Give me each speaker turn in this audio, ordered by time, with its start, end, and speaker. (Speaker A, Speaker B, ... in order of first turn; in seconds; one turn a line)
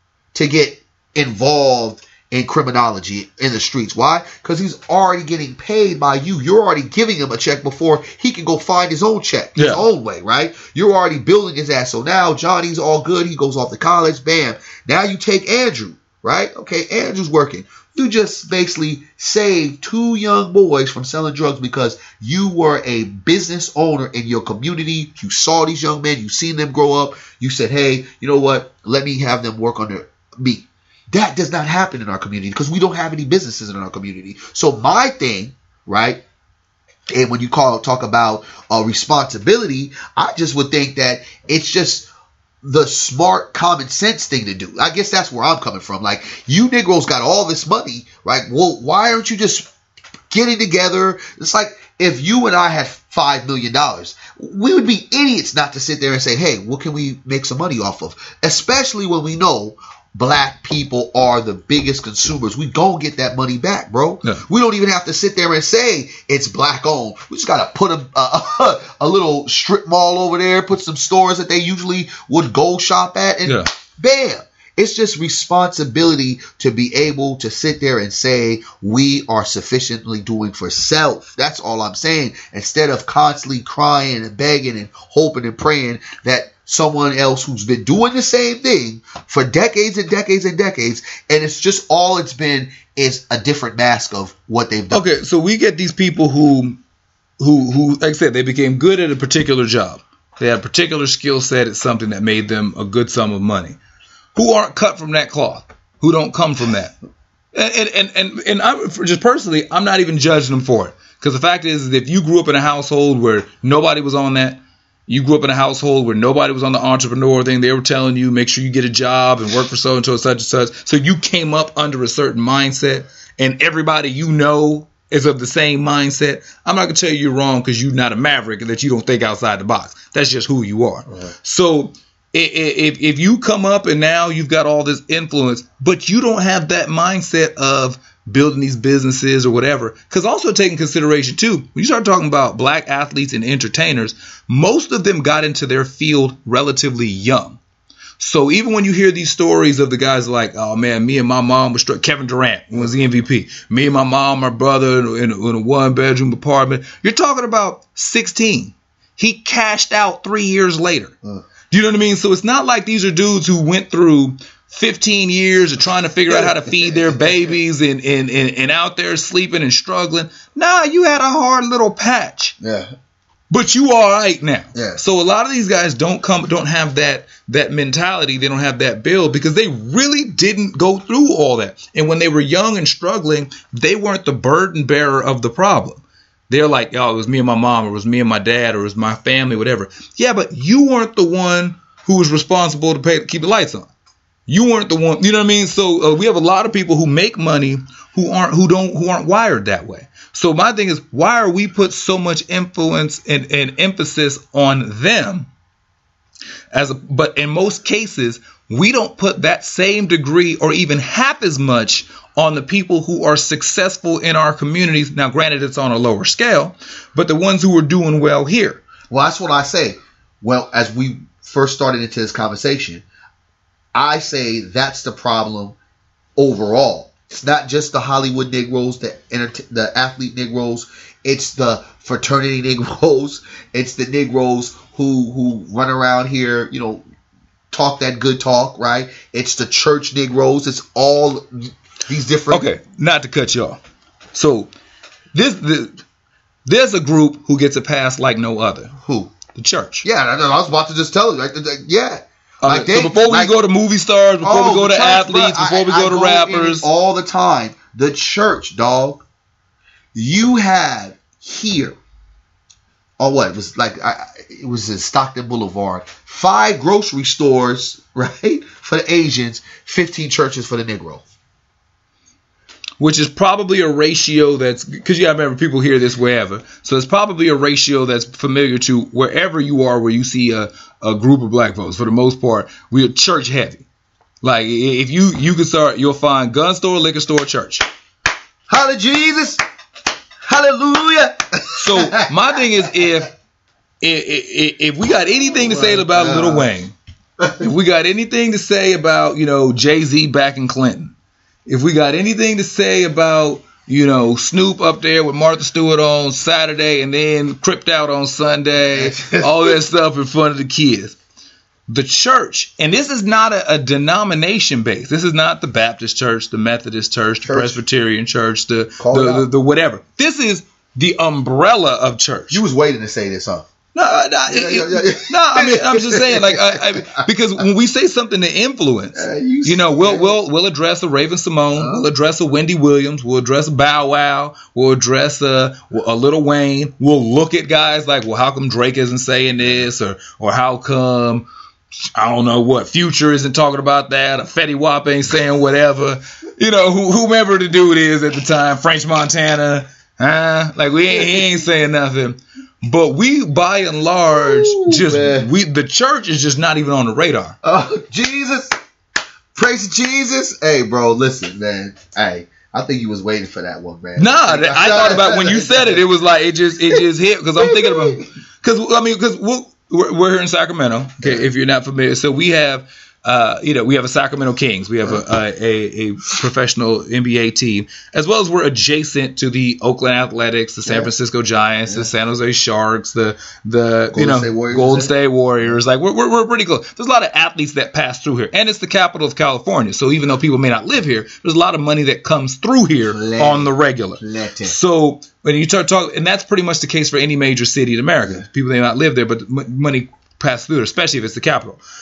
Speaker A: 0.3-36.2
Speaker B: 9.6-9.8
Speaker A: 37.1-42.1
Speaker A: 42.6-49.7
Speaker A: 50.3-95.0
Speaker B: 73.4-73.7
Speaker B: 94.9-96.8
Speaker B: 97.4-103.8
Speaker B: 104.3-106.9
Speaker B: 107.5-147.6
Speaker B: 148.2-161.2
Speaker B: 161.7-172.6
Speaker A: 166.3-167.5
Speaker A: 172.6-172.9
Speaker B: 173.5-193.9
Speaker A: 174.7-175.0
Speaker B: 194.5-205.5
Speaker B: 206.7-218.8
Speaker A: 219.1-223.1
Speaker A: 223.9-225.8
Speaker A: 226.4-237.0
Speaker A: 237.7-242.7
Speaker B: 242.5-243.8
Speaker B: 244.3-244.7
Speaker B: 245.3-246.0
Speaker B: 246.7-248.9
Speaker A: 249.0-249.3
Speaker B: 249.5-250.0
Speaker A: 250.0-253.6
Speaker B: 252.6-256.9
Speaker A: 254.4-259.2
Speaker A: 260.1-262.0
Speaker A: 263.2-271.2
Speaker B: 273.0-283.9
Speaker B: 284.4-287.8
Speaker A: 288.7-289.6
Speaker A: 290.4-292.3
Speaker B: 291.8-293.3
Speaker B: 294.0-296.9
Speaker A: 295.5-296.7
Speaker A: 297.4-297.7
Speaker B: 297.6-301.1
Speaker B: 301.6-311.2
Speaker A: 308.8-309.7
Speaker B: 311.9-322.6
Speaker A: 317.4-317.8
Speaker A: 319.0-319.5
Speaker A: 322.5-323.6
Speaker B: 323.9-341.5
Speaker A: 324.5-327.2
Speaker A: 329.1-330.3
Speaker A: 331.8-332.1
Speaker A: 339.6-339.9
Speaker B: 342.1-357.6
Speaker A: 351.1-351.6
Speaker A: 354.3-355.5
Speaker A: 357.6-358.7
Speaker A: 359.5-366.0
Speaker B: 364.1-401.8
Speaker A: 367.6-368.2
Speaker A: 371.2-371.5
Speaker A: 380.8-381.1
Speaker A: 384.1-385.1
Speaker A: 393.0-394.7